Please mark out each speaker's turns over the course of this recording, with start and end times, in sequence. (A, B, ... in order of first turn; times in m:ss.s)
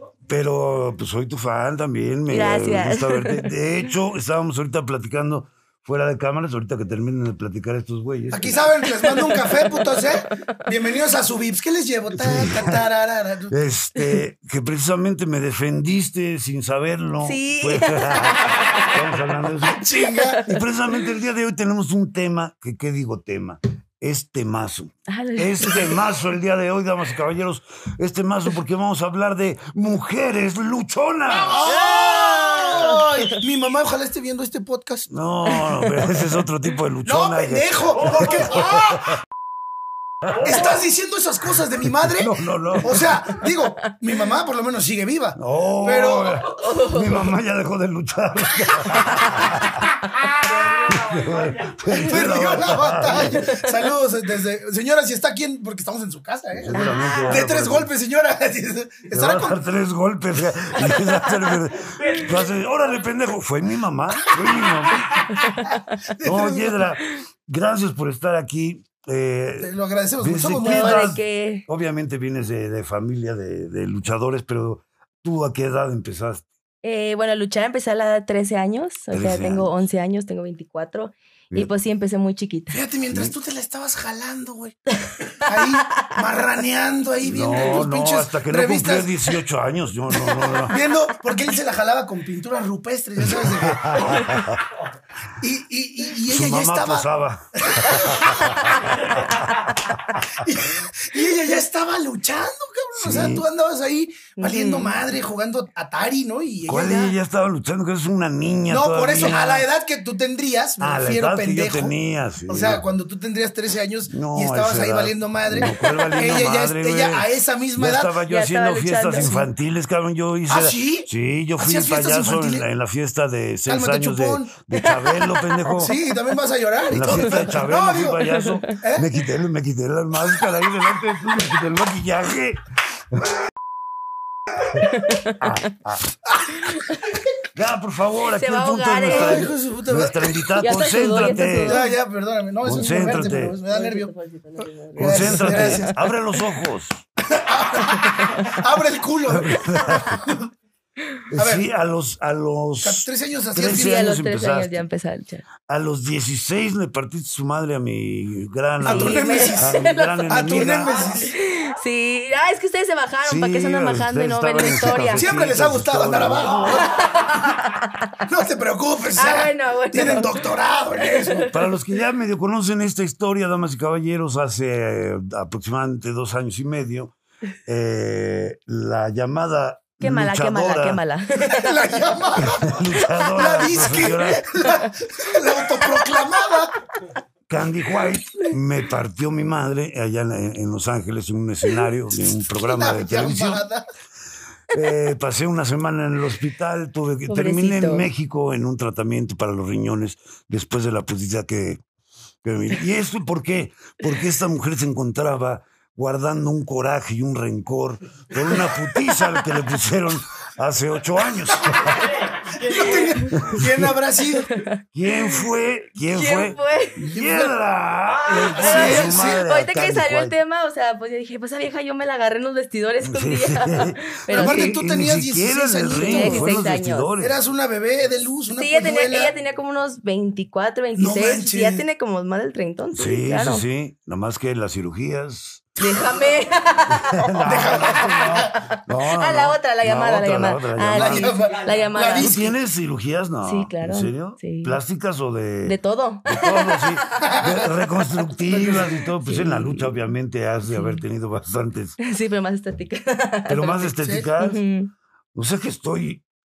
0:00.3-0:08.7 A
0:02.3-0:03.5 B
0:08.3-0:13.5 C
0:09.0-0:10.0 B
0:12.1-0:12.9 A
0:13.5-0:19.8 A
0:17.2-0:18.7 B
0:19.7-0:20.4 C
0:20.4-0:31.7 A
0:25.1-0:25.9 B
0:31.4-0:35.1 C
0:31.7-0:33.0 B
0:35.1-0:39.0 A
0:37.0-0:39.2 C
0:40.4-0:46.4 C
0:42.0-0:43.4 A
0:45.4-0:49.8 A
0:46.5-0:47.2 B
0:50.4-0:50.8 C
0:50.8-0:53.5 A
0:51.8-0:59.6 C
0:53.3-0:53.7 B
0:56.5-0:57.9 A
0:56.7-0:57.4 B
0:59.1-1:05.2 A
1:05.6-1:06.8 C
1:06.2-1:16.4 A
1:09.6-1:11.1 C
1:10.6-1:11.6 B
1:16.8-1:22.8 B
1:19.1-1:19.7 A
1:22.7-1:24.8 C
1:25.4-1:29.1 C
1:27.2-1:30.8 A
1:30.2-1:30.6 B
1:30.7-1:34.3 C
1:33.3-1:34.6 A
1:35.4-1:37.1 C
1:36.3-1:39.6 A
1:37.6-1:39.1 C
1:40.3-1:47.1 C
1:42.9-1:43.4 A
1:44.4-1:45.0 B
1:46.7-1:49.7 A
1:48.7-1:51.9 C
1:50.8-1:52.8 A
1:52.5-1:58.1 C
1:54.1-2:05.9 A
1:55.6-1:56.2 B
1:58.3-1:59.4 B
1:59.1-1:59.4 C
2:00.5-2:02.6 C
2:03.7-2:04.5 C
2:04.7-2:05.6 B
2:05.8-2:09.1 C
2:06.9-2:12.6 A
2:15.1-2:15.3 B
2:15.4-2:16.1 A
2:16.3-2:16.8 C
2:17.5-2:21.8 A
2:18.3-2:19.5 B
2:19.1-2:20.4 C
2:20.6-2:21.9 B
2:21.5-2:24.1 C
2:22.6-2:23.6 A
2:22.8-2:25.9 B
2:24.9-2:26.0 C
2:25.0-2:27.0 A
2:27.3-2:30.5 C
2:28.2-2:28.6 B
2:29.3-2:30.2 A
2:31.3-2:34.8 A
2:31.4-2:31.6 C
2:32.8-2:34.1 C
2:33.6-2:35.4 B
2:35.6-2:40.9 A
2:38.8-2:41.3 C
2:38.8-2:40.2 B
2:40.9-2:45.3 B
2:43.2-2:46.7 A
2:45.1-2:47.2 C
2:46.8-2:48.0 B
2:48.2-2:51.5 C
2:49.2-2:50.4 B
2:51.0-2:51.5 B
2:51.5-2:57.1 A
2:57.6-3:01.0 A
3:00.0-3:01.7 B
3:01.4-3:06.7 C
3:02.4-3:04.6 A
3:03.0-3:03.8 B
3:05.8-3:06.2 B
3:07.5-3:13.6 A
3:12.3-3:13.8 C
3:14.7-3:21.8 A
3:17.3-3:18.1 B
3:22.4-3:32.2 A
3:32.5-3:34.5 C
3:33.4-3:33.9 A
3:34.5-3:34.8 B
3:34.9-3:40.4 A
3:36.1-3:37.0 B
3:37.1-3:37.5 C
3:38.3-3:39.4 C
3:38.3-3:44.8 B
3:43.0-3:47.3 A
3:44.3-3:46.7 C
3:45.9-3:47.1 B
3:47.2-3:49.3 C
3:48.5-3:53.6 B
3:51.0-3:51.8 C
3:52.9-3:55.7 A
3:55.8-3:58.0 B
3:56.9-4:01.3 A
3:57.4-3:58.5 C
3:59.1-4:02.4 B
4:00.9-4:02.5 C
4:02.1-4:12.0 A
4:03.4-4:04.8 B
4:05.6-4:07.4 B
4:08.6-4:09.9 B
4:10.7-4:11.0 B
4:12.0-4:14.9 B
4:13.5-4:14.6 A
4:15.3-4:16.2 A